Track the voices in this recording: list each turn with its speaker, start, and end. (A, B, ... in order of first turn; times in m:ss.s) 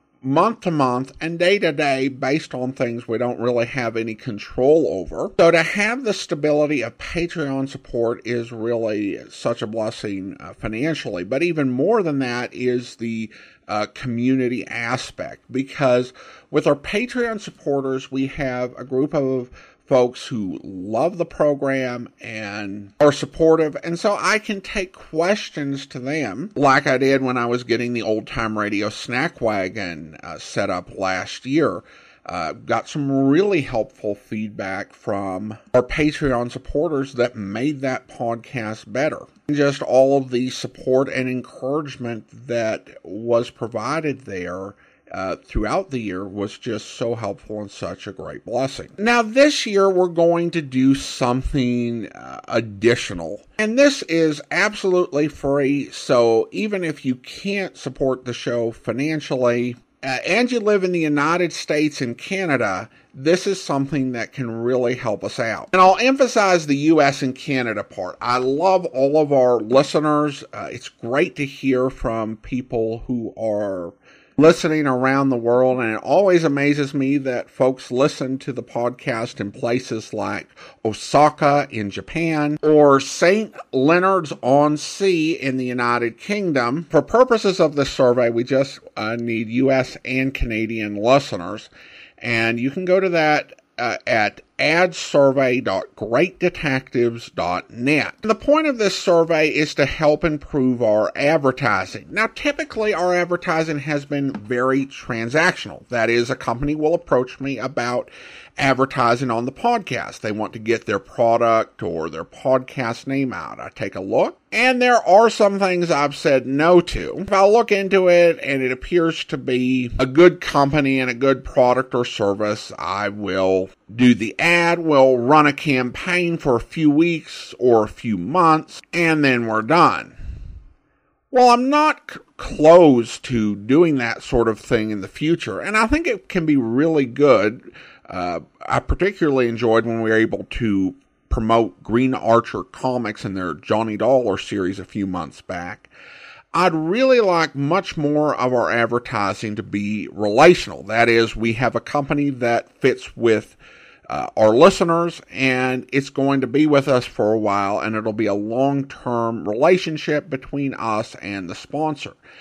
0:00.2-2:10.2 A
2:11.3-2:25.9 A
2:26.5-2:42.2 A